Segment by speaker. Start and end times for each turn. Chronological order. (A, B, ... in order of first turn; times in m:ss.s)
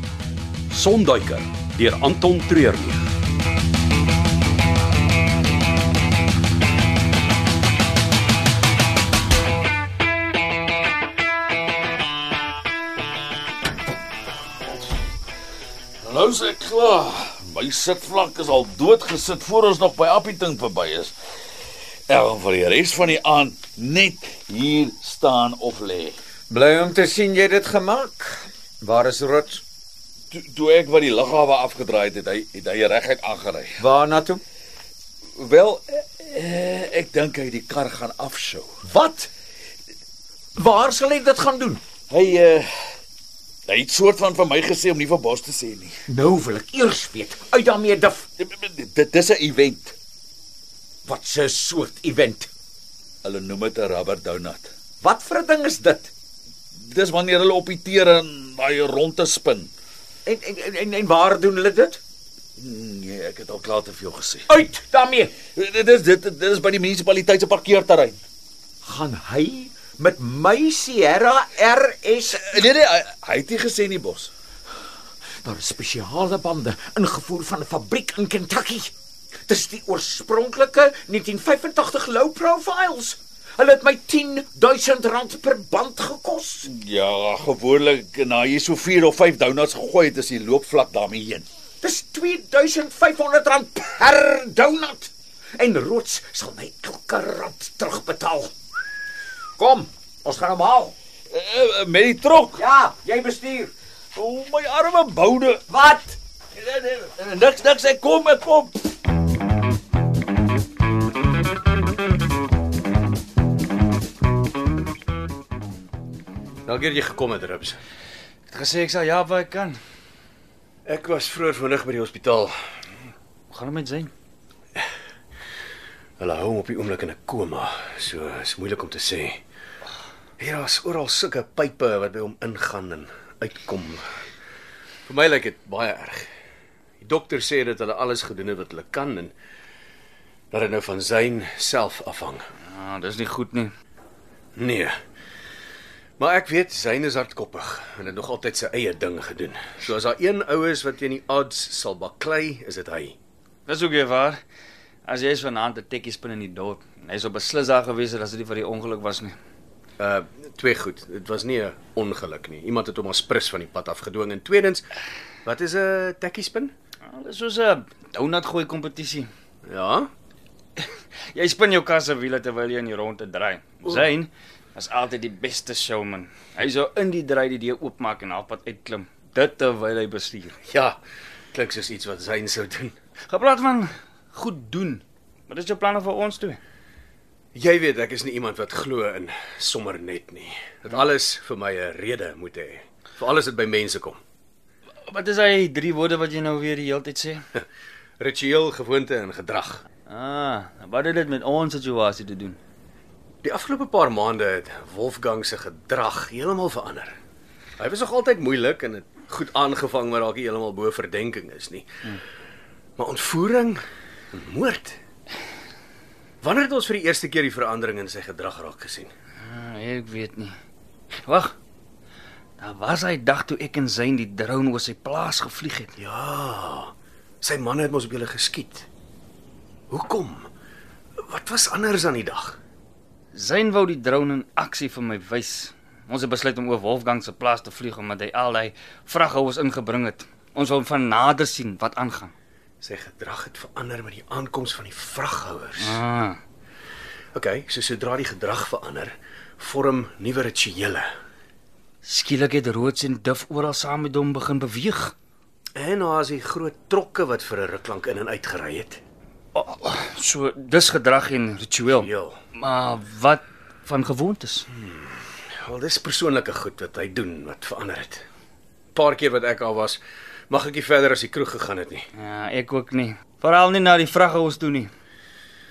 0:00.7-0:03.1 A
0:16.0-0:21.1 B
0:22.1-0:26.2 B
0:26.5-0:29.6 C
0:30.3-0:33.8 B
0:33.8-0:34.4 C
0:35.4-0:38.7 B
0:38.9-0:39.3 C
0:40.6-0:41.8 C
0:42.1-0:42.7 B
0:43.7-0:46.0 B
0:46.1-0:48.3 C
0:48.4-0:50.0 B
0:51.0-0:52.5 C
0:53.2-0:54.7 B
0:55.0-0:56.1 C
0:56.9-0:59.7 B
1:00.3-1:02.0 C
1:02.6-1:04.5 B
1:04.5-1:05.3 C
1:05.5-1:08.2 B
1:08.8-1:12.6 C
1:12.4-1:14.3 B
1:15.4-1:18.9 C
1:19.5-1:26.7 C
1:26.7-1:31.5 B
1:31.8-1:38.5 C
1:39.6-1:40.9 C
1:41.3-1:42.6 B
1:42.6-1:43.7 C
1:44.2-1:45.6 B
1:45.7-1:46.2 C
1:46.6-1:48.7 B
1:56.7-1:57.8 D
1:58.5-1:59.8 E
2:00.8-2:02.6 D
2:03.5-2:04.1 E
2:06.2-2:09.4 D
2:10.4-2:14.2 D
2:15.1-2:16.3 D
2:17.0-2:19.3 D
2:20.5-2:22.5 D
2:22.7-2:23.7 E
2:24.6-2:25.0 D
2:26.2-2:33.2 D
2:33.7-2:34.4 E
2:35.0-2:39.4 E
2:40.0-2:44.9 D
2:45.4-2:46.7 D
2:47.1-2:49.3 E
2:49.6-2:50.1 D
2:50.8-3:00.6 E
3:00.7-3:01.0 D
3:01.5-3:03.0 D
3:03.3-3:06.6 E
3:07.5-3:14.2 D
3:15.1-3:17.4 E
3:18.2-3:19.8 D
3:20.1-3:22.6 E
3:23.4-3:27.2 D
3:27.8-3:31.9 D
3:33.0-3:33.8 D
3:34.3-3:35.0 D
3:36.4-3:39.1 D
3:39.4-3:40.6 E
3:41.1-3:41.6 E
3:42.6-3:46.0 E
3:46.0-3:48.9 D
3:49.9-3:50.5 D
3:51.2-3:52.6 D
3:53.3-4:02.3 E
4:02.8-4:06.0 D
4:05.8-4:06.4 E
4:07.3-4:11.1 D
4:12.0-4:15.1 E
4:15.8-4:19.0 D
4:19.5-4:24.7 E
4:21.9-4:22.4 D
4:24.7-4:28.2 D
4:28.9-4:32.1 D
4:32.2-4:34.9 E